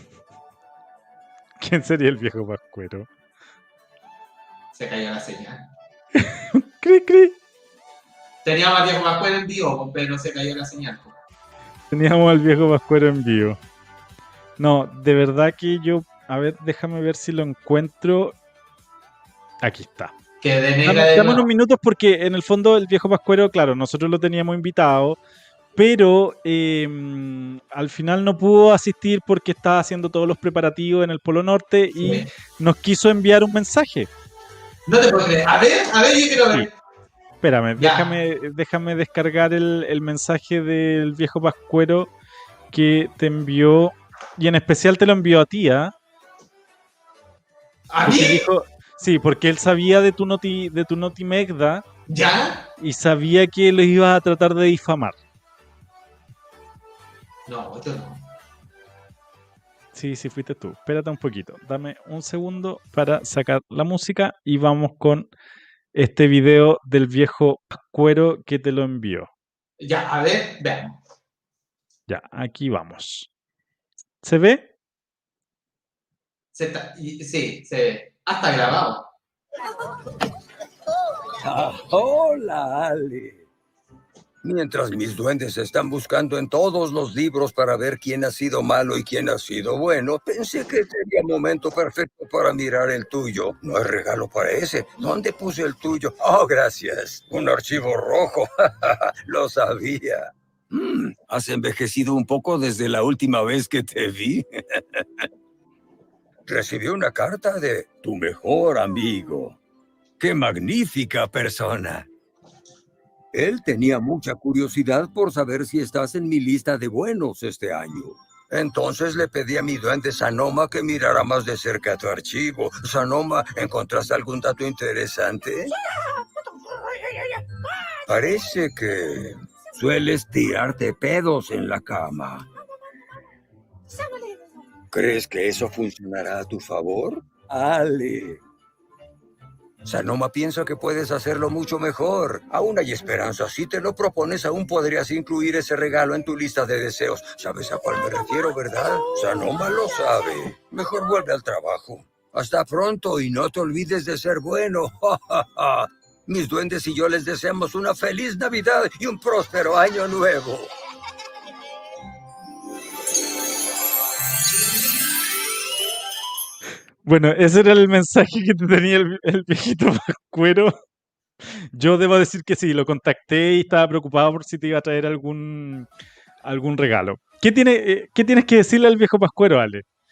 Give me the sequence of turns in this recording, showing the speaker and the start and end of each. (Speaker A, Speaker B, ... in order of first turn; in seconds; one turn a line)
Speaker A: 1.6-3.1
Speaker B: 4.7-5.7
Speaker A: 6.1-7.3
Speaker B: 8.4-11.2
Speaker A: 11.9-13.6
Speaker A: 14.6-18.4
Speaker A: 19.6-20.1
Speaker B: 20.4-21.5
Speaker A: 20.8-25.2
Speaker A: 25.8-34.1
Speaker B: 32.0-32.3
Speaker B: 34.9-36.7
Speaker A: 37.4-42.1
Speaker B: 37.8-38.0
Speaker A: 42.7-45.9
Speaker B: 47.9-48.5
Speaker A: 48.0-51.8
Speaker B: 52.1-52.6
Speaker A: 52.8-55.2
Speaker B: 57.5-58.2
Speaker A: 59.9-65.3
Speaker A: 65.9-69.3
Speaker B: 69.8-70.9
Speaker A: 72.1-73.3
Speaker A: 74.2-74.7
Speaker B: 76.5-79.1
Speaker C: 81.4-83.4
Speaker C: 84.4-105.2
Speaker C: 106.5-109.6
Speaker C: 110.2-112.1
Speaker C: 113.3-125.7
Speaker C: 128.1-132.5
Speaker C: 134.9-138.4
Speaker C: 139.8-160.7
Speaker A: 167.0-170.7
Speaker A: 171.7-175.9
Speaker A: 176.4-179.8